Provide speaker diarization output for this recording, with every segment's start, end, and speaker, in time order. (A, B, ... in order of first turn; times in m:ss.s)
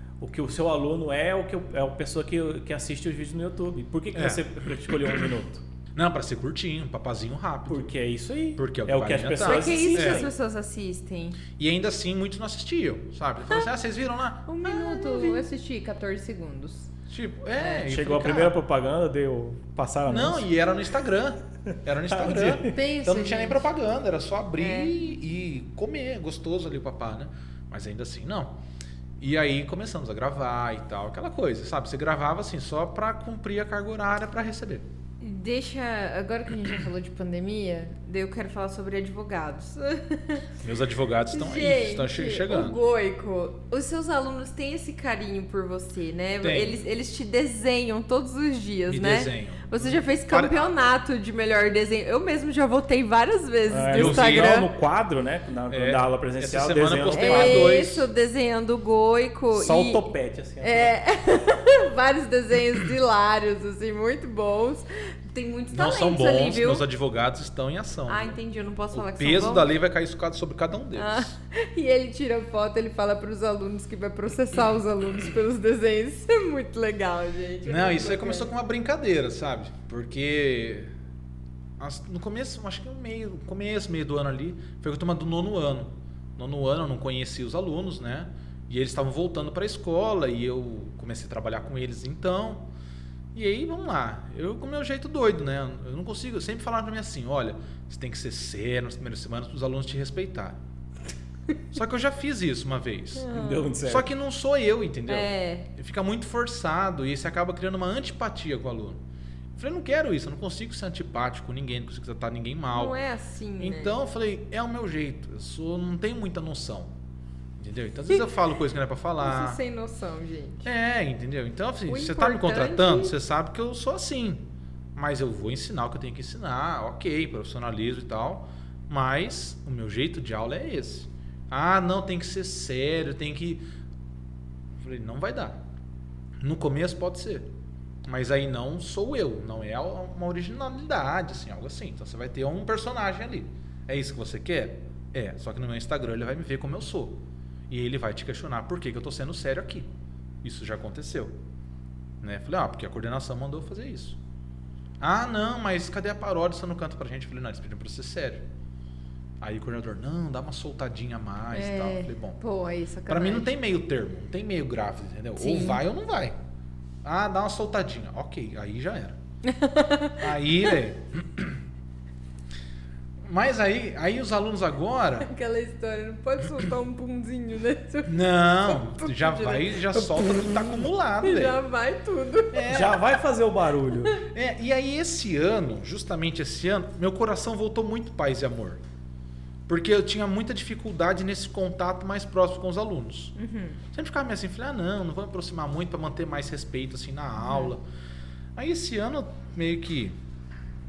0:00.2-0:05.6 A
0:04.1-0:04.4 B
0:05.9-0:07.9 B
0:07.7-0:10.3 A
0:08.6-0:10.3 B
0:09.4-0:11.4 C
0:11.6-0:15.4 B
0:14.5-0:16.9 C
0:17.1-0:18.6 B
0:17.6-0:20.5 A
0:20.1-0:28.6 B
0:22.1-0:22.7 A
0:22.6-0:23.7 C
0:24.6-0:25.0 C
0:29.2-0:34.8 B
0:35.2-0:40.5 C
0:40.6-0:42.8 B
0:41.3-0:54.7 C
0:46.4-0:46.8 B
0:48.9-0:50.8 B
0:53.7-0:57.8 A
0:53.9-0:54.7 B
0:55.7-0:58.1 B
0:57.1-1:00.0 C
0:59.5-1:00.9 A
1:00.6-1:06.8 C
1:05.7-1:08.4 B
1:08.1-1:09.7 C
1:08.9-1:11.3 B
1:10.9-1:18.5 C
1:17.6-1:20.9 B
1:21.8-1:32.7 B
1:33.3-1:40.6 B
1:41.7-1:49.0 B
1:43.2-1:43.7 C
1:43.3-1:44.1 A
1:45.1-1:45.7 C
1:49.6-1:53.0 B
1:52.7-1:54.0 C
1:53.6-1:56.9 B
1:57.6-1:59.6 B
1:59.2-2:00.7 C
2:00.6-2:13.6 B
2:01.9-2:03.1 C
2:14.8-2:15.6 B
2:16.4-2:17.5 B
2:18.0-2:29.9 B
2:30.4-2:31.3 B
2:32.2-2:34.2 B
2:35.0-2:38.4 B
2:39.4-2:42.4 B
2:41.5-2:43.5 C
2:43.1-2:46.4 B
2:45.4-2:45.8 C
2:47.0-2:49.2 B
2:49.4-2:50.3 C
2:50.2-2:51.6 B
2:53.2-2:55.3 B
2:55.2-3:02.7 C
2:58.0-3:01.6 B
3:02.5-3:03.1 B
3:02.6-3:04.2 A
3:04.2-3:08.8 B
3:09.7-3:13.3 B
3:13.4-3:13.8 C
3:13.9-3:17.8 B
3:17.4-3:17.7 C
3:18.6-3:20.2 B